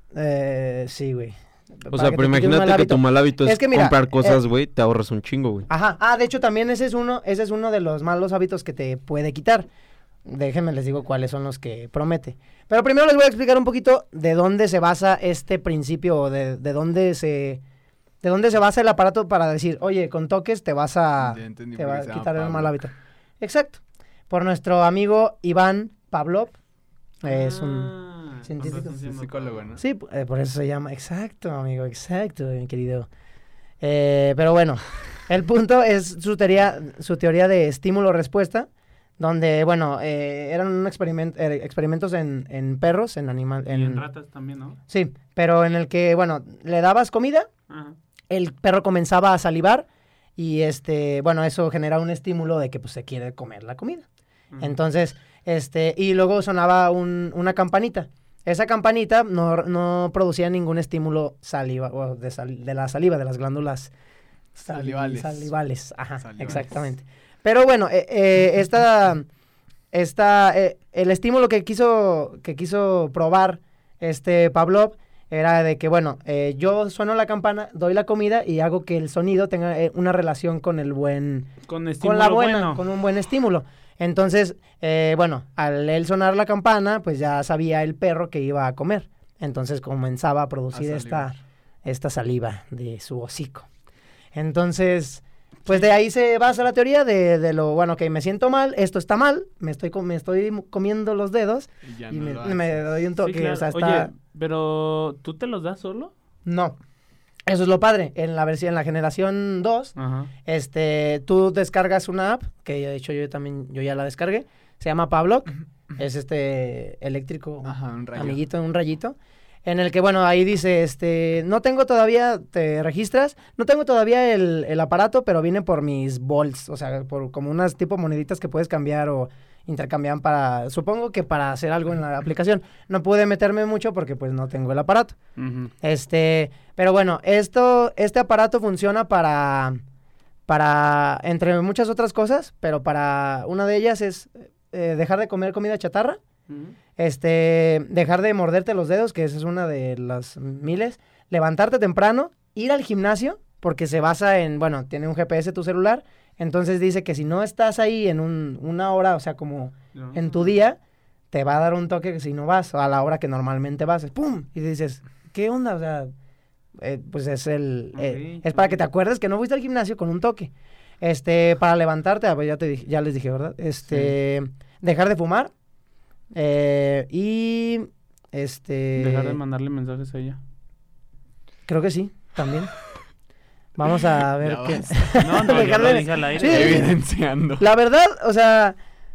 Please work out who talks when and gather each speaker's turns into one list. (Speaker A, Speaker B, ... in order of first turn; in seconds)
Speaker A: 0.1-4.4, 5.7-9.7, 10.2-17.6, 18.2-26.6, 27.2-29.0, 29.8-33.1, 33.8-38.7, 39.2-44.0, 44.9-47.5, 48.3-54.0, 54.6-63.9, 64.5-69.3, 69.9-93.7, 94.3-104.1, 106.5-106.8, 107.5-109.9, 110.5-135.2, 135.8-139.8, 140.5-146.2, 147.0-160.8, 161.3-166.1, 166.8-175.5, 176.3-179.4, 181.7-182.7, 183.8-187.0, 187.6-188.8
Speaker B: 1.9-5.7
Speaker C: 21.2-22.7, 29.1-29.8, 64.6-65.5, 66.2-66.8, 90.7-91.3, 101.8-103.0, 117.6-118.4, 184.2-187.6
Speaker D: 27.2-29.7, 43.7-44.8, 47.7-48.0, 81.7-82.8, 103.2-106.1, 110.0-110.3, 135.4-135.7, 146.5-146.8, 159.9-160.5, 167.9-168.8, 179.0-180.4, 185.2-186.9